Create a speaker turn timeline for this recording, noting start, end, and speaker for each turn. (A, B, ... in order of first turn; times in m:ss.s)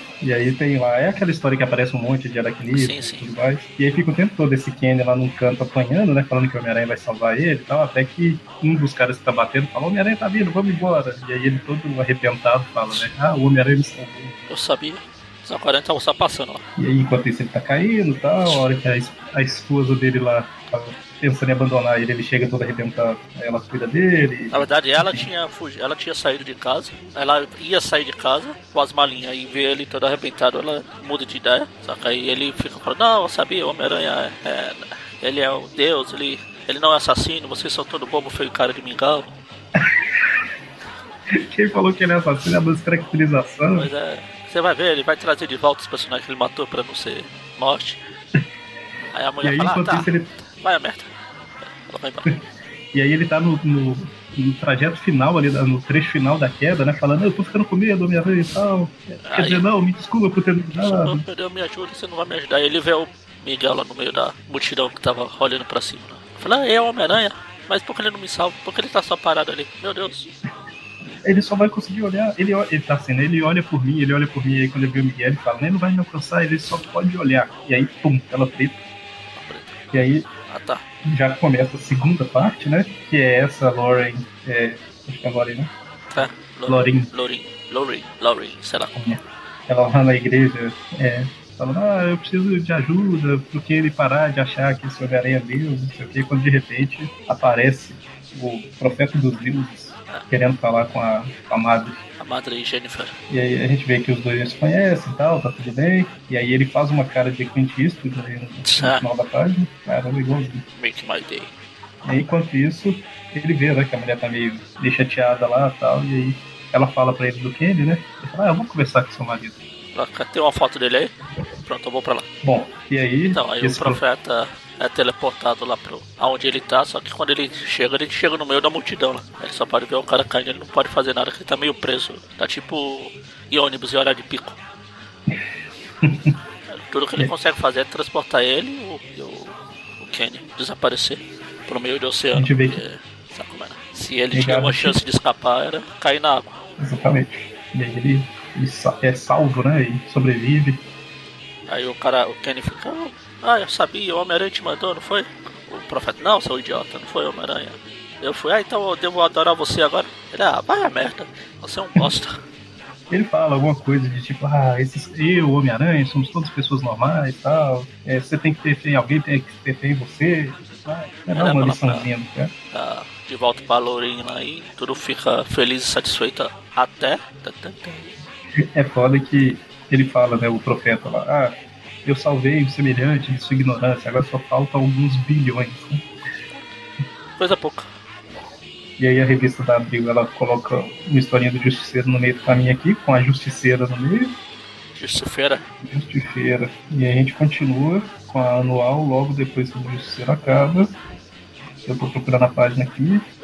0:00.2-0:14.4 A
0:02.7-0:03.3 B
0:14.5-0:16.6 B
0:16.8-0:25.3 A
0:24.5-0:39.4 B
0:41.3-0:43.9 A
0:43.7-0:48.0 B
0:49.1-0:51.1 B
0:49.4-0:50.3 A
0:51.8-0:52.3 B
0:52.9-1:01.2 A
0:59.2-0:59.6 B
1:00.8-1:10.3 B
1:11.2-1:18.8 A
1:19.4-1:19.8 B
1:19.9-1:20.3 A
1:20.5-1:20.8 B
1:21.0-1:27.1 A
1:26.1-1:29.0 B
1:28.9-1:42.0 A
1:42.2-1:43.2 B
1:43.3-1:50.6 A
1:48.6-1:49.0 B
1:50.8-1:51.5 B
1:52.0-1:59.6 A
1:59.9-2:02.3 B
2:02.4-2:04.0 A
2:03.3-2:14.6 B
2:16.0-2:16.3 A
2:16.7-2:26.6 B
2:22.3-2:22.8 A
2:24.3-2:25.0 A
2:26.8-2:30.8 A
2:31.7-2:42.4 B
2:43.1-2:52.5 A
2:51.4-2:52.1 B
2:52.7-2:58.1 B
2:58.6-3:06.0 A
3:07.4-3:07.9 B
3:09.0-3:14.4 A
3:15.0-3:15.7 B
3:15.8-3:21.0 A
3:21.8-3:23.3 A